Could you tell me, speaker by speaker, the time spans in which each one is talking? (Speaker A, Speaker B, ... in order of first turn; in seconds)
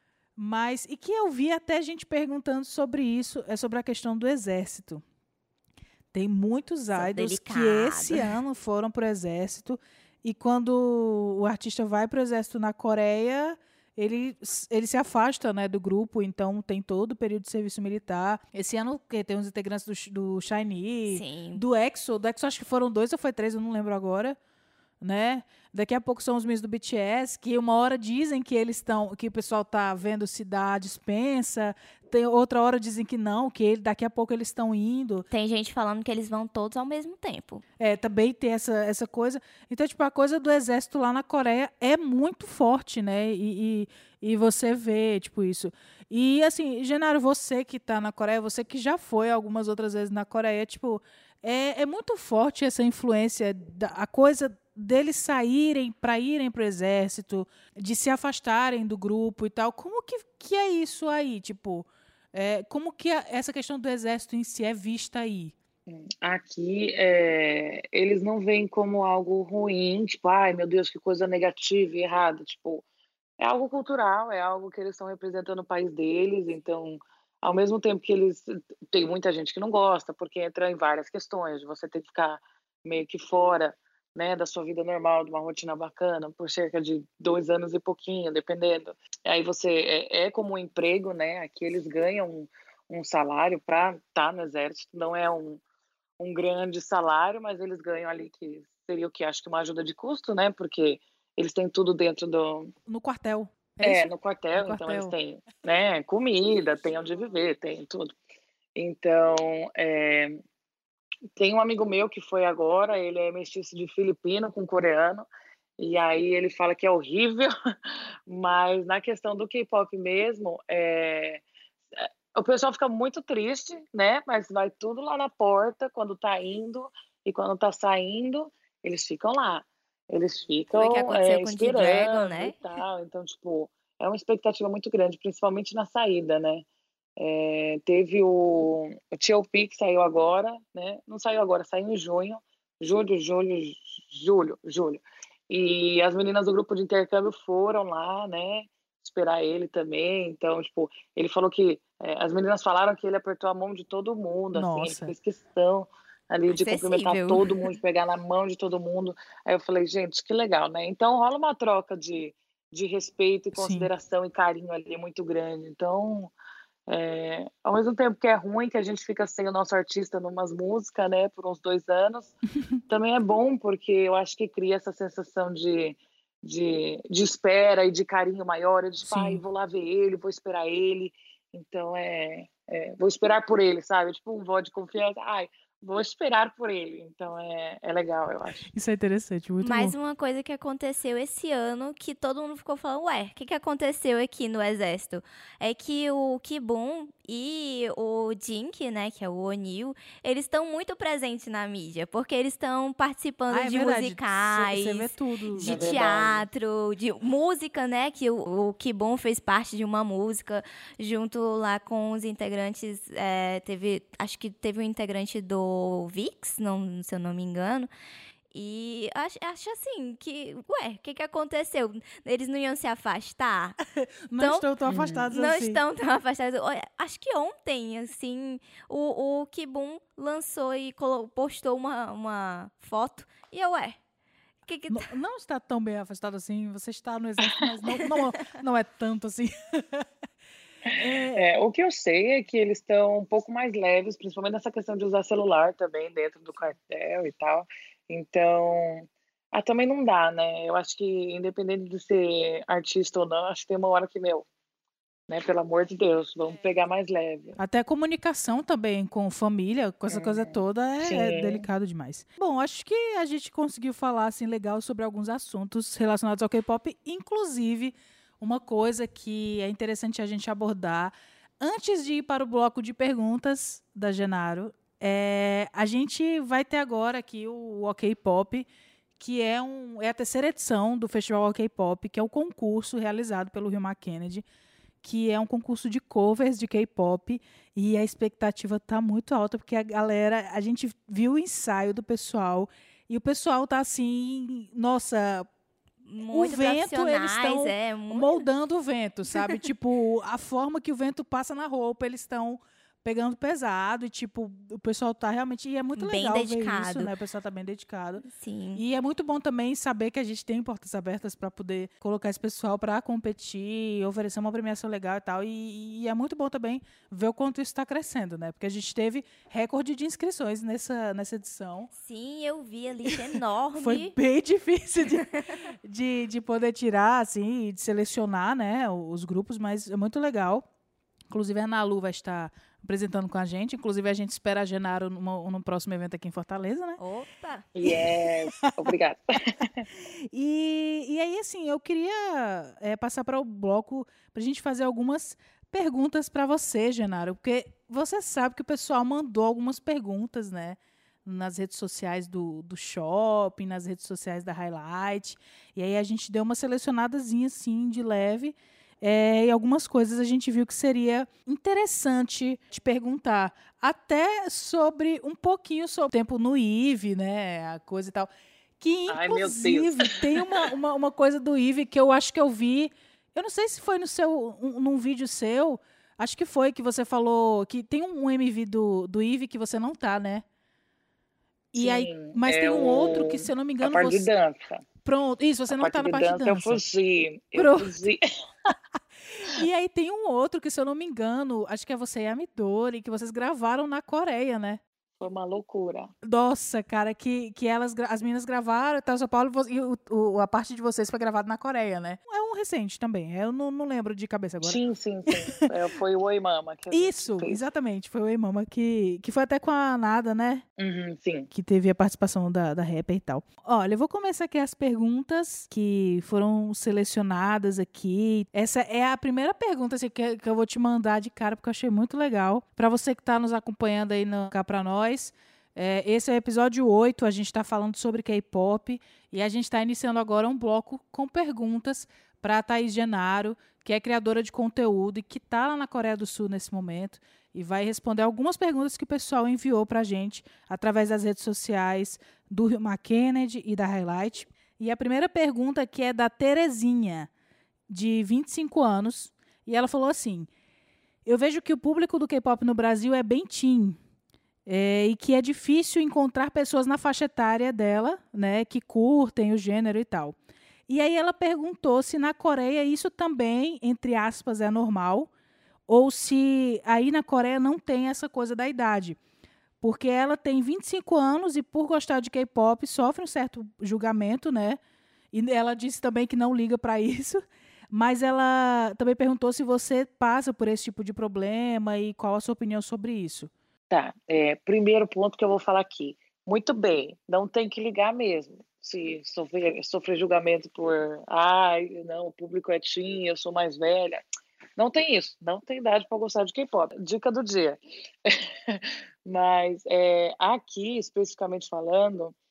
Speaker A: 0.3-5.0, 6.1-24.4, 25.0-35.2, 37.8-65.5, 102.9-105.1, 154.5-155.1, 163.5-163.9, 179.0-179.4, 188.7-189.9, 203.5-206.0, 223.9-225.8, 234.9-240.1, 241.0-241.5, 257.6-278.7, 279.2-284.4, 285.0-295.5, 296.3-308.2, 308.7-321.9, 323.8-330.6, 331.3-337.0, 338.6-338.9, 339.9-380.4, 381.7-384.3, 385.0-386.8, 387.5-388.0, 389.3-394.8, 396.2-405.4, 406.9-410.6, 411.5-447.3, 447.9-450.5, 451.2-454.0, 454.6-460.4, 460.9-465.3, 465.9-469.2, 469.8-474.8, 475.3-483.5
Speaker B: 6.9-8.3, 21.1-21.6, 35.3-37.6, 130.7-132.6, 156.5-157.5, 189.6-217.9, 218.5-223.8, 224.4-224.7, 225.3-234.0, 234.7-235.1, 296.1-298.4, 306.0-307.1, 308.2-308.8, 321.9-324.1, 337.0-337.7
Speaker C: 65.9-72.8, 73.4-95.6, 96.2-102.7, 103.8-108.1, 108.8-110.4, 111.3-115.3, 115.8-117.5, 118.3-121.4, 122.0-136.7, 137.2-166.3, 166.9-172.3, 172.9-188.7, 205.6-206.4, 224.9-225.3, 237.4-237.7, 240.8-254.4, 255.3-257.6, 260.1-261.6, 337.8-339.9, 369.1-370.7, 381.7-384.8, 385.7-388.7, 395.2-396.1, 404.6-407.6, 410.8-411.5, 483.9-494.2, 494.8-502.3